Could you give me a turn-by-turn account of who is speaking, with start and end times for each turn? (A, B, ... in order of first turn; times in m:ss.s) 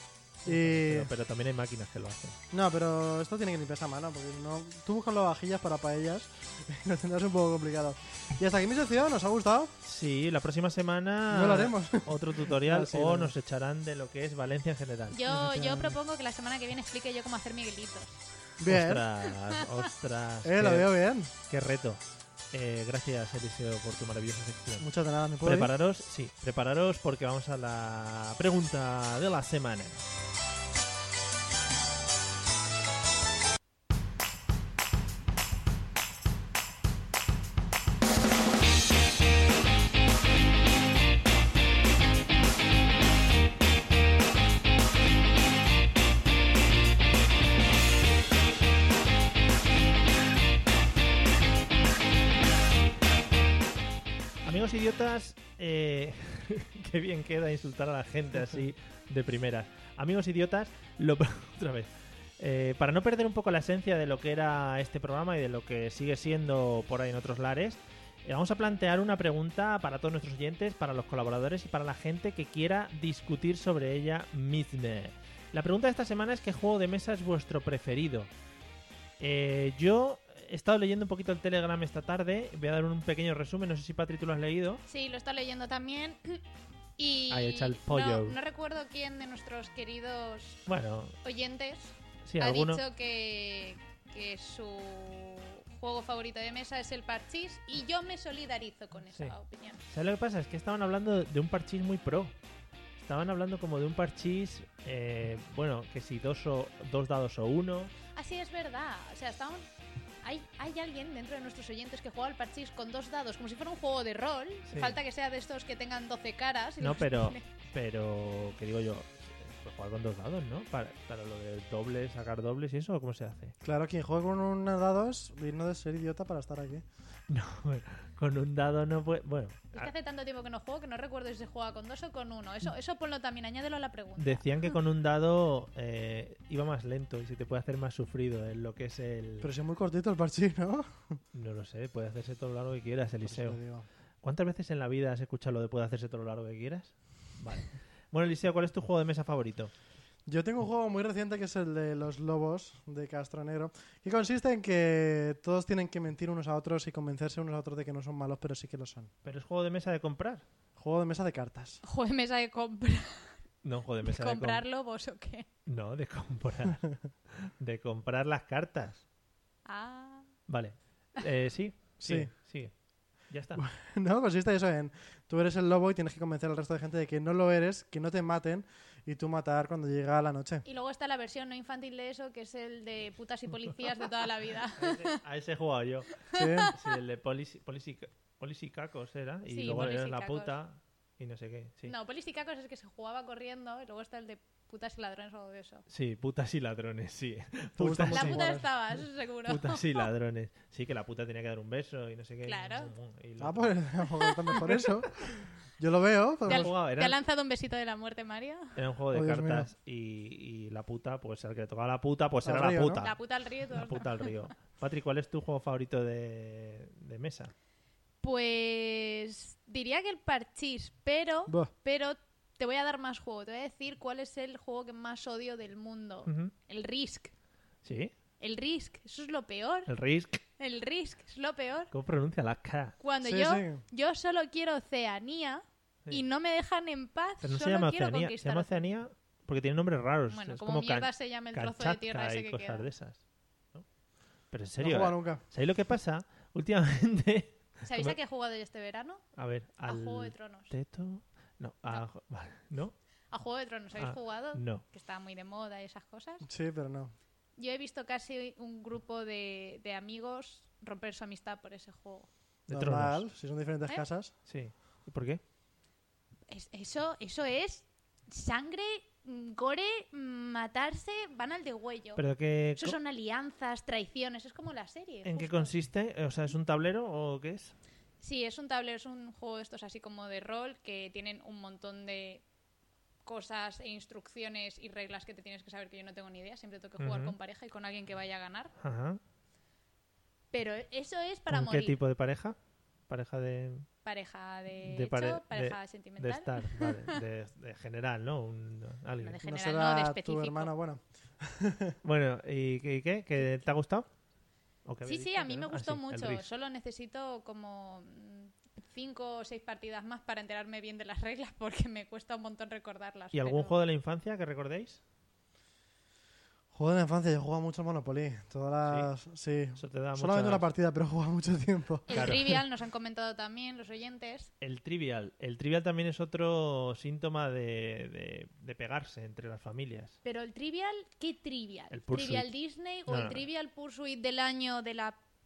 0:00.4-0:01.1 A
0:00.4-0:02.4 B
0:02.5-0:09.7 A
0:09.8-0:15.2 B
0:11.3-0:13.3 A
0:15.1-0:18.2 C
0:15.3-0:16.0 A
0:18.6-0:19.1 A
0:18.6-0:20.9 B
0:20.4-0:21.3 A
0:21.5-0:22.0 B
0:22.5-0:24.9 B
0:24.8-0:25.7 A
0:25.4-0:30.0 B
0:54.4-1:18.3 B
1:19.2-1:24.8 B
1:24.8-1:26.4 C
1:27.0-1:30.6 C
1:27.3-1:28.4 B
1:30.7-1:31.2 B
1:31.2-1:39.8 C
1:32.2-1:32.8 B
1:39.1-1:39.4 B
1:39.9-1:42.3 B
1:43.0-1:47.9 B
1:48.1-1:49.6 C
1:50.2-1:57.4 C
1:54.7-1:55.0 B
1:56.8-2:03.5 B
2:03.6-2:06.8 A
2:07.3-2:09.9 B
2:09.7-2:14.4 C
2:14.2-2:19.5 B
2:19.4-2:21.2 A
2:21.3-2:23.6 B
2:23.2-2:23.9 A
2:24.2-2:29.7 B
2:30.3-2:39.1 A
2:39.2-2:40.4 B
2:40.8-2:41.8 A
2:41.8-2:43.4 C
2:43.6-2:44.6 B
2:44.0-2:45.5 C
2:45.6-2:49.0 B
2:49.6-2:50.3 C
2:50.5-2:52.7 B
2:52.0-2:52.3 A
2:53.2-2:53.6 B
2:53.6-3:00.6 A
3:00.6-3:05.2 C
3:04.8-3:11.9 B
3:06.3-3:06.7 C
3:06.3-3:06.7 A
3:09.5-3:10.5 C
3:11.8-3:15.8 C
3:15.9-3:18.4 B
3:17.8-3:18.6 A
3:18.1-3:20.1 C
3:19.4-3:23.8 B
3:22.4-3:22.9 C
3:23.4-3:25.2 A
3:24.2-3:24.6 C
3:25.8-3:26.7 A
3:26.5-3:28.7 C
3:26.5-3:27.2 B
3:28.8-3:33.2 B
3:29.1-3:29.7 A
3:32.4-3:33.0 A
3:33.0-3:34.3 C
3:33.7-3:37.5 B
3:38.2-3:47.3 C
3:46.2-3:46.5 B
3:47.8-3:48.1 B
3:48.4-3:49.9 C
3:49.9-3:50.4 B
3:50.6-3:51.9 C
3:51.9-3:53.0 B
3:53.0-3:58.8 C
3:53.2-3:53.8 A
3:57.4-4:03.2 B
4:00.3-4:02.9 C
4:04.5-4:08.2 B
4:04.8-4:05.4 A
4:07.8-4:09.2 C
4:09.4-4:12.9 B
4:09.8-4:10.7 C
4:13.3-4:16.4 C
4:14.0-4:14.8 B
4:16.4-4:17.1 A
4:17.6-4:22.3 C
4:22.7-4:23.2 B
4:22.7-4:24.3 A
4:24.4-4:25.4 B
4:26.5-4:32.2 C
4:32.2-4:33.0 B
4:32.8-4:35.7 C
4:35.2-4:37.7 B
4:38.2-4:42.4 C
4:43.2-4:48.7 C
4:47.0-4:47.3 B
4:48.8-4:49.2 B
4:50.5-4:52.0 C
4:51.5-4:52.5 B
4:53.1-4:53.9 B
4:54.0-4:57.1 C
4:54.8-4:59.4 B
4:59.2-5:00.7 C
4:59.4-5:02.0 A
5:02.0-5:04.1 B
5:04.8-5:06.5 B
5:05.0-5:13.8 C
5:13.3-5:15.0 B
5:16.7-5:22.4 A
5:18.8-5:19.1 B
5:19.8-5:20.6 B
5:22.1-5:24.5 C
5:22.1-5:22.4 B
5:24.6-5:30.2 B
5:30.2-5:35.1 C
5:31.9-5:32.5 B
5:33.1-5:33.4 B